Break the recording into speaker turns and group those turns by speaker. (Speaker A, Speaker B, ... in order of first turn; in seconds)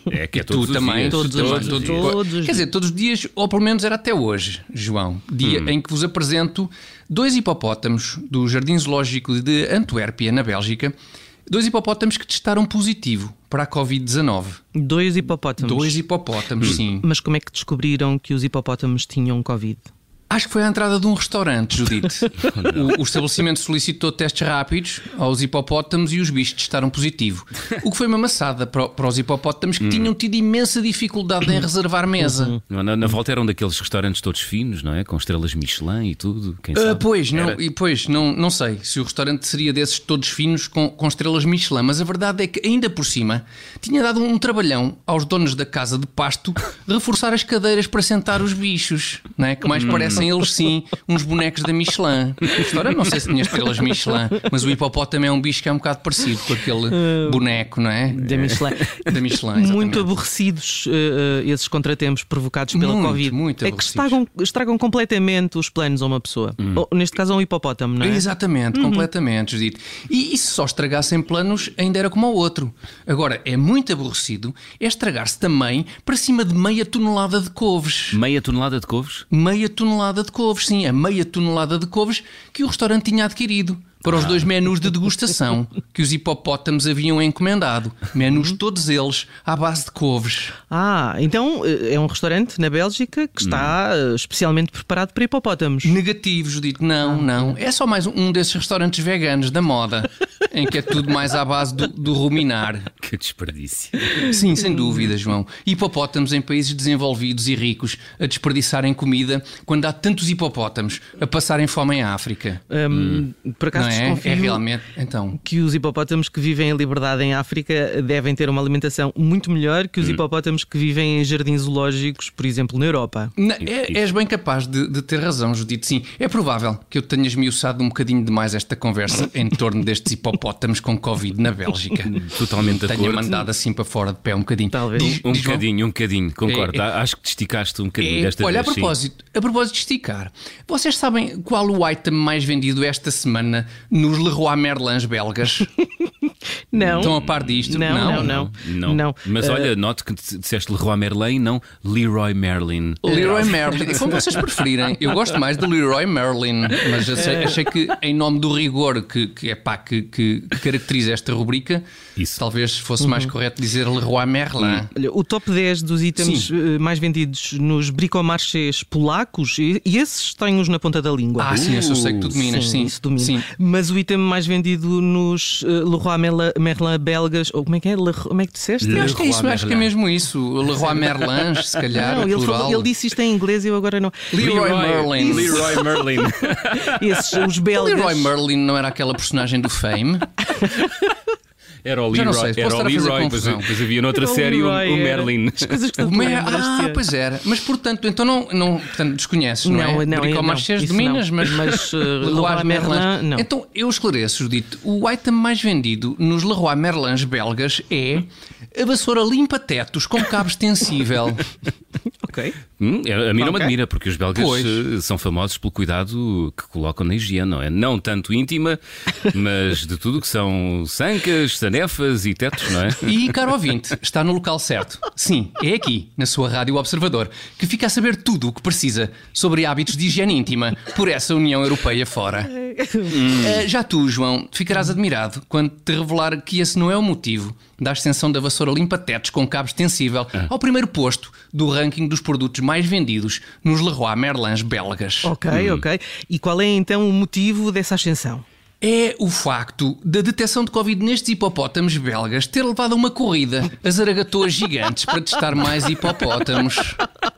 Speaker A: 0.1-2.1, 5.4-5.7, 22.4-22.9, 29.8-30.1, 32.7-37.6, 49.8-50.2, 78.1-79.2, 84.1-84.5, 93.4-93.8, 103.0-104.2, 112.9-113.2, 123.6-124.0, 132.1-133.4, 135.0-138.9, 146.8-154.1, 171.5-172.4, 178.8-179.9, 181.2-181.8, 184.4-187.4, 191.8-195.8, 212.8-223.1, 233.2-233.6, 245.5-245.8
Speaker B: 0.3-10.9, 11.5-14.6, 15.6-17.1, 20.3-32.6, 36.7-60.1, 62.7-64.2, 68.0-78.2, 79.3-90.5, 95.8-102.9, 104.1-112.6, 113.7-115.4, 123.4-135.7, 136.4-136.8, 138.0-145.7, 147.0-148.3, 153.0-161.8, 162.3-164.9, 166.2-166.5, 171.4-173.5, 178.9-182.9, 184.3-185.7, 187.7-190.2, 192.1-193.7, 196.0-211.4, 214.3-214.8, 223.0-245.3, 248.8-257.0
Speaker C: 1.1-2.6, 14.7-16.0, 17.0-19.9, 32.2-32.5, 57.0-57.4, 58.1-69.0, 90.7-95.9, 97.1-97.5, 112.7-114.6, 115.4-123.3, 134.7-135.2, 146.7-147.1, 147.7-149.7, 153.1-153.9, 157.2-157.6, 163.0-163.3, 164.6-171.6, 172.3-179.2, 181.9-186.1, 186.7-188.3, 190.6-191.1, 194.1-197.0, 199.6-203.5, 212.2-212.6, 213.4-213.7, 232.6-233.2, 245.2-248.4